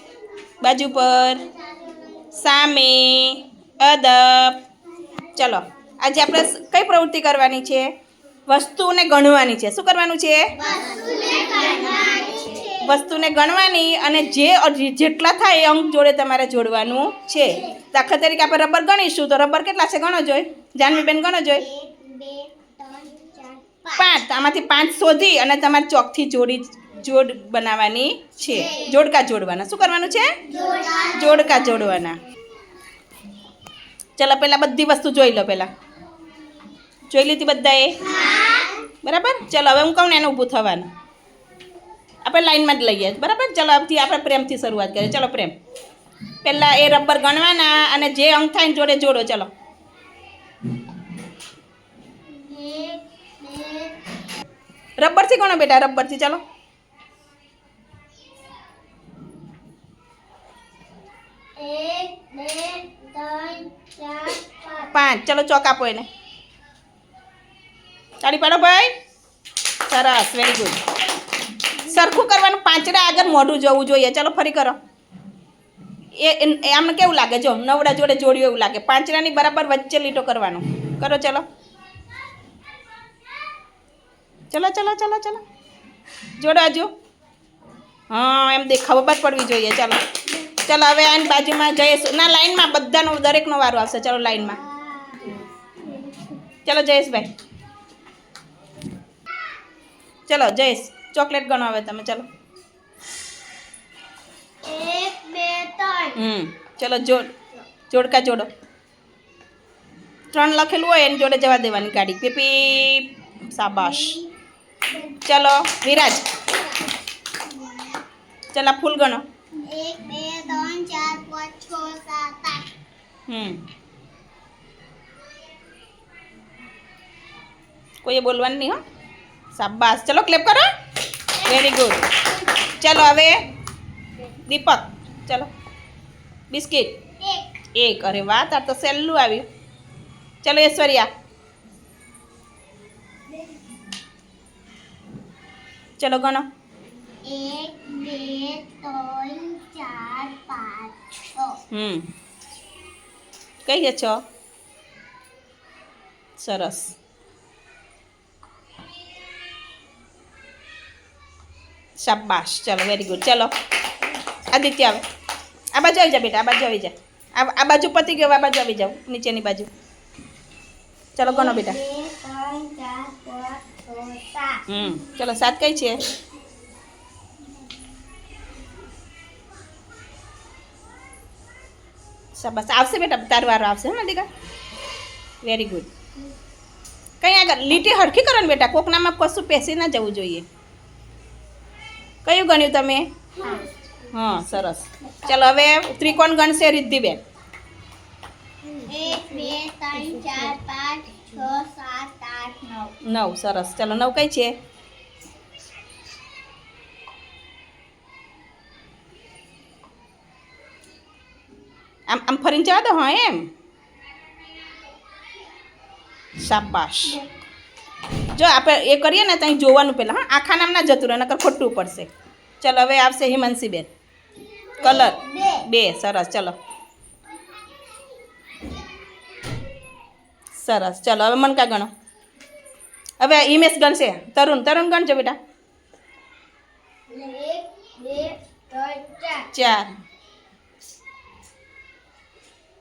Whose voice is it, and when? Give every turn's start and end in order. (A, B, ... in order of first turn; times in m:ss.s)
0:00.6-0:01.4 A
0:01.4-0:02.3 B
0:02.3-0:04.6 A
0:05.3-0:07.9 A
0:08.5-0:10.5 A
0:10.6-0:13.0 B
0:12.8-0:21.6 A
0:17.4-0:17.9 B
0:21.5-0:24.2 B
0:24.0-0:30.4 A
0:28.4-0:29.0 B
0:30.4-0:31.9 B
0:31.1-0:32.2 A
0:34.2-0:35.7 A
0:37.1-0:38.0 A
0:38.0-0:38.9 B
0:39.0-0:40.9 A
0:42.2-0:45.5 A
0:46.4-0:49.5 A
0:52.3-0:54.0 B
0:55.0-0:56.4 A
1:01.6-1:04.9 B
1:04.9-1:06.1 A
1:08.2-1:08.9 A
1:09.9-1:10.8 A
1:11.8-1:14.8 A
1:16.1-1:21.4 A
1:24.5-1:25.4 A
1:26.4-1:26.9 A
1:28.1-1:30.0 A
1:30.5-1:34.6 A
1:34.4-1:36.2 B
1:36.6-1:37.3 A
1:40.3-1:42.2 A
1:44.6-1:46.2 B
1:46.1-1:47.3 A
1:47.9-1:48.5 A
1:50.3-1:54.2 A
1:53.8-1:54.3 B
1:55.2-1:56.4 A
1:58.5-1:59.2 A
1:59.6-2:02.7 B
2:03.3-2:03.6 A
2:08.0-2:08.8 A
2:09.5-2:10.7 A
2:11.4-2:12.1 A
2:11.4-2:12.3 B
2:12.6-2:13.4 A
2:14.4-2:15.5 A
2:16.5-2:17.0 A
2:17.2-2:17.5 B
2:17.8-2:19.4 A
2:20.4-2:21.1 A
2:26.0-2:26.4 A
2:27.2-2:31.6 B
2:31.7-2:32.0 A
2:33.6-2:34.2 A
2:36.4-2:36.9 A
2:42.0-2:43.5 A
2:44.5-2:45.0 A
2:45.7-2:49.7 A
2:51.2-2:51.8 A
2:51.2-2:55.2 B
2:54.7-2:56.0 A
3:02.4-3:04.3 A
3:05.4-3:05.9 A
3:07.2-3:10.4 A
3:12.2-3:13.1 A
3:13.4-3:13.7 B
3:14.1-3:17.2 A
3:18.8-3:22.9 B
3:23.0-3:24.5 A
3:32.1-3:33.5 A
3:36.4-3:37.2 A
3:38.3-3:43.9 A
3:44.8-3:45.7 B
3:44.8-3:46.6 A
3:50.6-3:51.9 A
3:53.2-3:55.4 A
3:57.1-3:59.5 B
3:59.5-3:59.9 A